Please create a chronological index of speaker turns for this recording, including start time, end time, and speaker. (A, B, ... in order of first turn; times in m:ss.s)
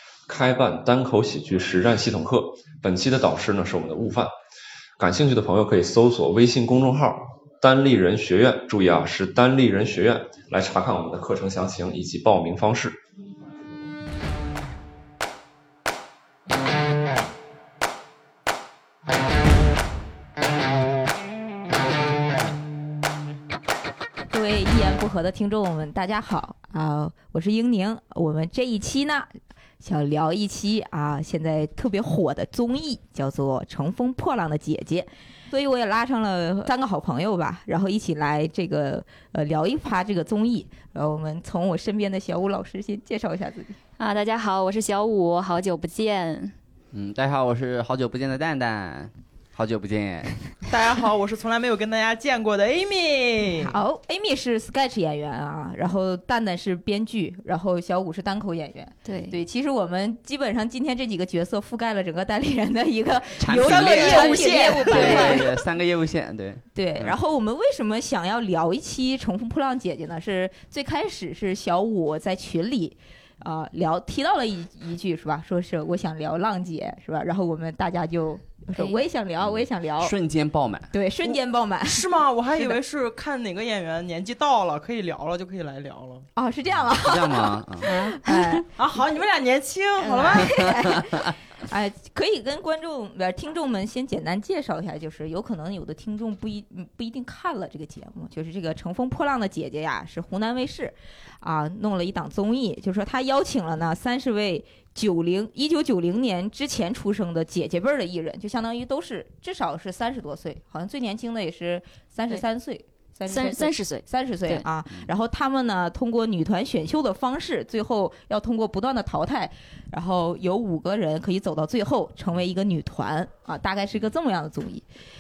0:00.3-0:04.3 A
0:05.0-0:13.0 A
0:24.3-0:43.8 B
0:44.0-0:46.5 C
0:46.9-0:50.4 D
0:50.7-0:53.8 E
0:53.6-1:05.6 B
0:59.0-0:59.4 C
1:03.4-1:07.2 D
1:03.5-1:05.4 E
1:04.8-1:05.4 C
1:06.8-1:20.2 B
1:19.4-1:20.9 D
1:20.9-1:22.8 B
1:21.3-1:26.3 E
1:26.4-1:28.7 B
1:26.8-1:27.9 D
1:27.8-1:28.5 C
1:28.8-1:30.6 E
1:30.0-2:04.9 B
1:30.5-1:31.3 D
1:53.2-1:54.6 C